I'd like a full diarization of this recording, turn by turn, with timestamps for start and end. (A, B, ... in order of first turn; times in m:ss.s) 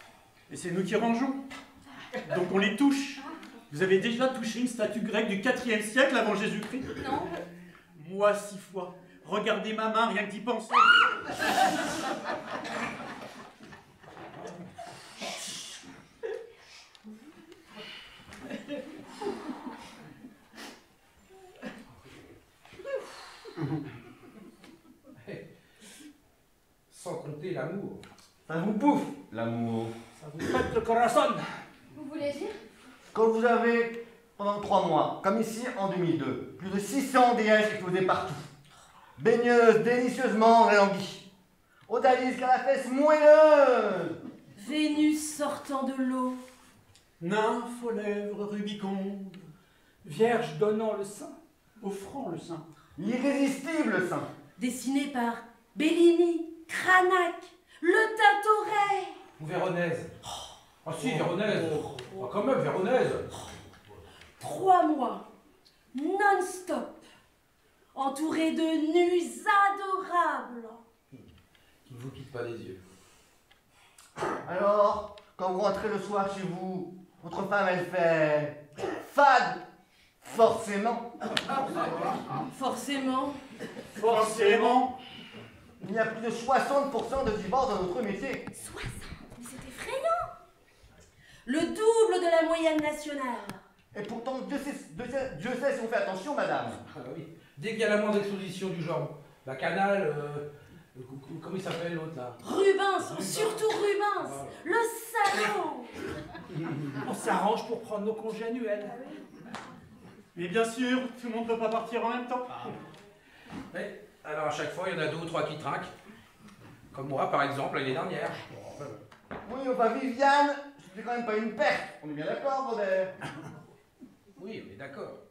0:00.5-0:01.4 A
0:02.2-0:06.9 A
0:07.0-0:07.3 B
0:07.9-0:11.1 A
0:25.2-0:25.5 C
0:26.9-0:28.0 C
0:28.4-0:29.9 D
0:30.2-0:31.6 E
0:31.9-0:32.6 B
0:33.1-0:38.5 D
0:39.2-0:41.3 D
0:41.9-0:44.2 D
0:44.6-0:46.4 F
0:47.2-0:49.5 A
0:50.0-0:51.4 E
0:51.8-0:52.7 A
0:53.0-0:54.3 D
0:54.6-0:59.2 F
0:59.4-1:00.1 C
1:00.8-1:03.3 C
1:01.0-1:02.1 E
1:04.4-1:05.3 F
1:05.9-1:07.0 F
1:07.9-1:10.8 F
1:11.8-1:12.8 C
1:14.4-1:19.6 D
1:20.2-1:21.1 D
1:22.5-1:23.4 F
1:24.0-1:25.0 A
1:24.0-1:24.8 E
1:25.8-1:28.5 D
1:28.5-1:30.3 B
1:31.4-1:33.6 F
1:33.9-1:36.8 D
1:36.8-1:42.4 C
1:42.4-1:46.0 F
1:43.0-1:43.6 C
1:44.2-1:44.6 C
1:47.0-1:49.0 E
1:50.3-1:52.6 A
1:53.7-1:55.9 C
1:56.9-1:59.0 C
1:59.4-2:03.2 D
2:04.4-2:05.2 C